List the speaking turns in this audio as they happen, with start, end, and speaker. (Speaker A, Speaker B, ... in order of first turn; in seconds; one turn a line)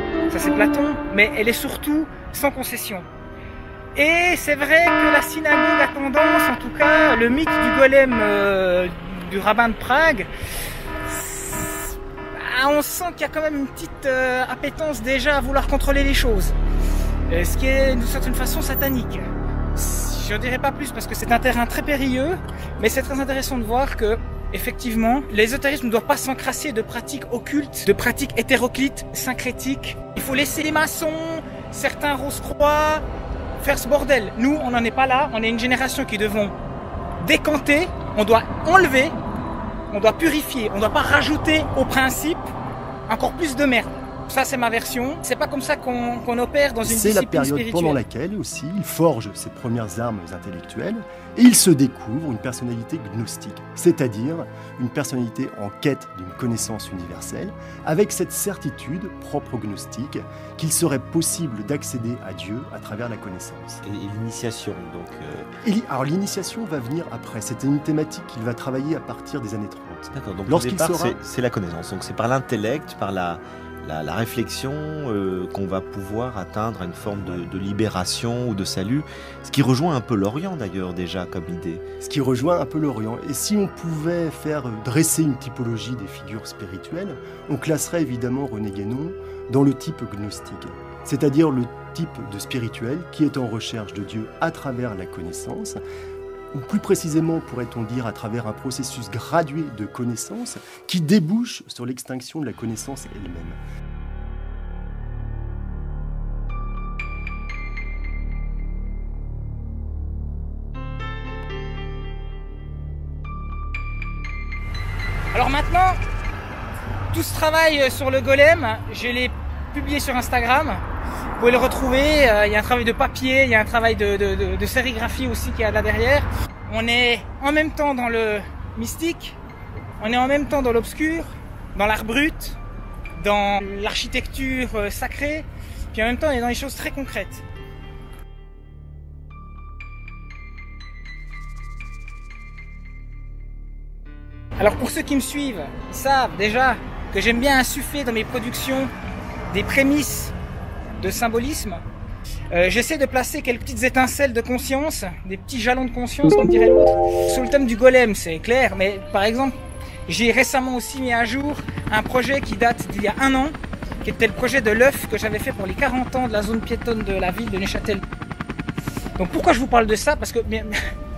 Speaker A: 0.3-3.0
Speaker A: 4.0-10.3
Speaker A: 11.1-16.6
Speaker A: 17.3-33.0
Speaker A: 33.6-36.5
Speaker A: 37.2-39.2
Speaker A: 39.9-42.5
Speaker A: 43.1-48.0
Speaker B: 46.8-63.8
Speaker C: 63.8-65.5
Speaker B: 65.6-71.2
Speaker C: 70.1-81.8
Speaker B: 82.0-95.8
Speaker B: 96.5-103.6
Speaker A: 115.3-116.0
Speaker A: 117.1-120.8
Speaker A: 121.4-129.4
Speaker A: 130.0-132.6
Speaker A: 133.2-137.4
Speaker A: 144.6-148.9
Speaker A: 149.5-150.3
Speaker A: 151.0-151.8
Speaker A: 152.5-159.6
Speaker A: 160.1-168.0
Speaker A: 169.2-170.8